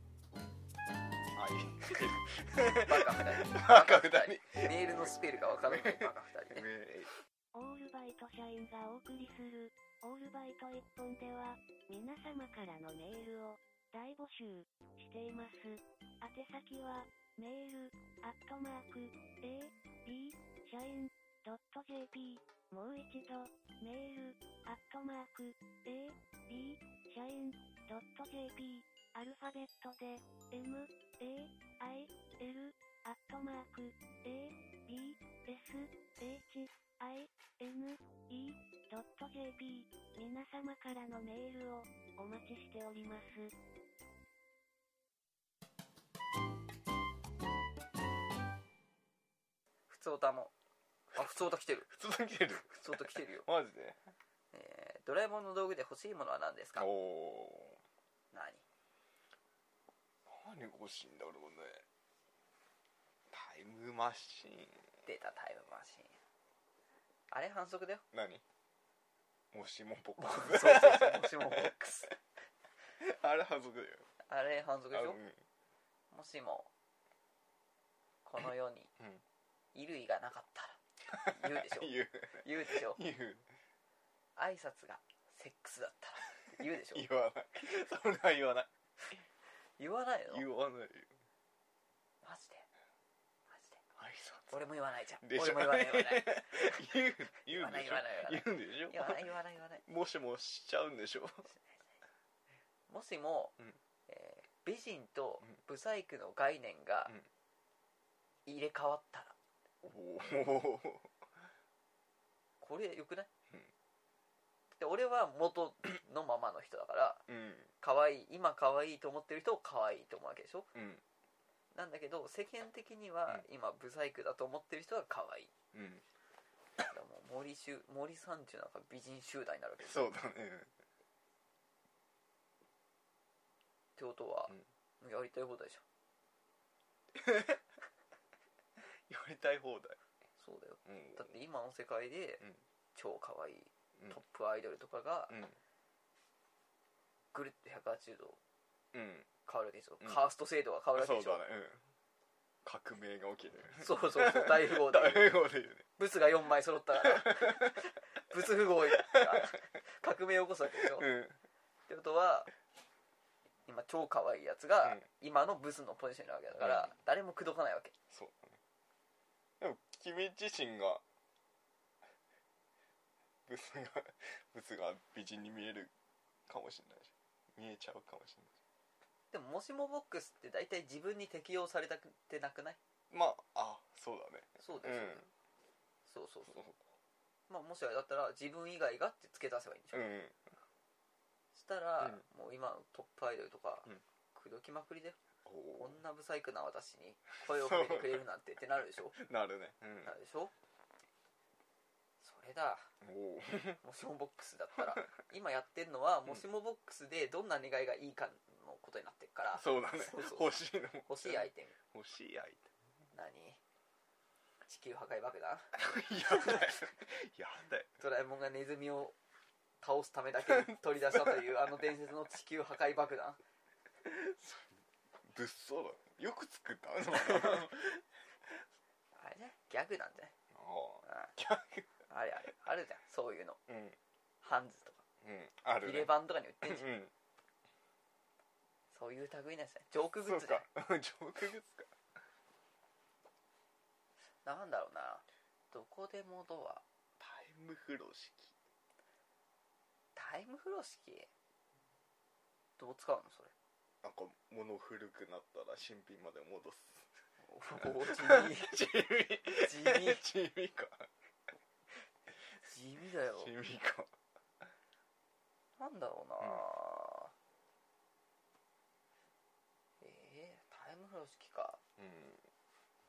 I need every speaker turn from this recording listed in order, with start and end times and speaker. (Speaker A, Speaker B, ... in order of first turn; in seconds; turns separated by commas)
Speaker A: 1.3-7.1, Speaker B: 2.7-6.7, Speaker C: 7.5-43.5, Speaker B: 49.9-50.5, Speaker B: 51.1-51.9, Speaker A: 51.9-54.0, Speaker B: 52.7-53.5, Speaker B: 54.5-56.9, Speaker A: 56.8-57.8, Speaker B: 58.3-58.6, Speaker A: 60.3-61.9, Speaker A: 63.3-64.8, Speaker B: 65.1-66.2, Speaker B: 67.3-68.0, Speaker A: 68.1-68.4, Speaker A: 69.5-71.7, Speaker B: 70.2-72.2, Speaker A: 73.0-74.1, Speaker B: 74.3-75.2, Speaker A: 74.9-75.4, Speaker B: 76.1-76.7, Speaker B: 78.2-78.9, Speaker B: 79.7-83.0, Speaker A: 81.1-83.4, Speaker B: 84.4-87.1, Speaker A: 86.9-89.2, Speaker B: 89.8-90.5, Speaker A: 90.3-91.1, Speaker B: 92.2-92.7, Speaker B: 93.5-93.8, Speaker A: 94.0-94.6, Speaker B: 94.5-96.8, Speaker A: 95.2-99.3, Speaker B: 97.4-99.8, Speaker A: 99.8-101.5, Speaker B: 102.9-107.2, Speaker B: 108.5-109.4, Speaker A: 109.8-111.1, Speaker B: 112.6-113.3, Speaker B: 114.7-117.2, Speaker A: 117.3-117.7, Speaker B: 117.8-120.7, Speaker A: 120.7-121.0, Speaker B: 121.7-125.5, Speaker A: 125.7-126.0, Speaker B: 126.9-130.1, Speaker A: 129.8-130.7, Speaker B: 134.0-135.8, Speaker A: 137.1-137.6, Speaker A: 138.8-140.0, Speaker B: 140.4-145.4, Speaker A: 140.9-141.3, Speaker A: 145.3-145.6, Speaker B: 147.3-148.4, Speaker A: 148.9-149.3, Speaker B: 149.5-151.4, Speaker A: 150.9-151.8, Speaker A: 152.6-155.9, Speaker B: 153.8-155.4, Speaker B: 156.0-161.1, Speaker A: 157.0-157.9, Speaker A: 158.9-159.6, Speaker A: 160.8-161.4, Speaker B: 161.9-162.5, Speaker B: 163.7-167.9, Speaker A: 166.6-166.9, Speaker A: 168.1-168.6, Speaker A: 169.6-171.0, Speaker A: 173.5-175.9, Speaker A: 176.5-178.5, Speaker B: 179.3-182.8, Speaker A: 183.1-185.3, Speaker B: 184.6-185.3, Speaker B: 186.1-186.6, Speaker A: 186.5-186.8, Speaker B: 187.5-190.1, Speaker A: 189.9-190.4, Speaker B: 191.5-195.2, Speaker A: 195.4-196.0, Speaker B: 195.8-199.2, Speaker A: 197.5-198.2, Speaker A: 199.1-200.1, Speaker B: 200.0-200.5, Speaker B: 202.2-202.9, Speaker A: 203.0-203.8, Speaker B: 203.8-210.5, Speaker A: 209.5-212.7, Speaker B: 211.1-211.8, Speaker B: 213.1-213.6, Speaker B: 214.7-215.7, Speaker A: 215.8-217.9, Speaker B: 216.3-216.7, Speaker B: 218.0-219.2, Speaker B: 219.8-223.4, Speaker A: 220.5-221.5, Speaker A: 224.0-228.6, Speaker B: 227.3-227.6, Speaker B: 229.2-230.3, Speaker A: 230.5-231.9, Speaker B: 231.1-231.3, Speaker B: 232.1-233.6, Speaker A: 233.7-234.0, Speaker B: 234.4-235.0, Speaker A: 235.2-237.1, Speaker B: 235.8-236.9, Speaker B: 238.9-240.7, Speaker A: 240.2-241.9, Speaker B: 244.4-246.8, Speaker A: 247.2-248.5, Speaker B: 250.2-251.3, Speaker B: 252.8-253.5, Speaker A: 254.0-257.1, Speaker B: 257.4-258.9, Speaker A: 257.8-261.1, Speaker B: 259.6-260.2, Speaker B: 262.6-263.5, Speaker A: 263.3-264.1, Speaker B: 265.8-267.3, Speaker B: 270.0-271.8, Speaker A: 272.0-272.4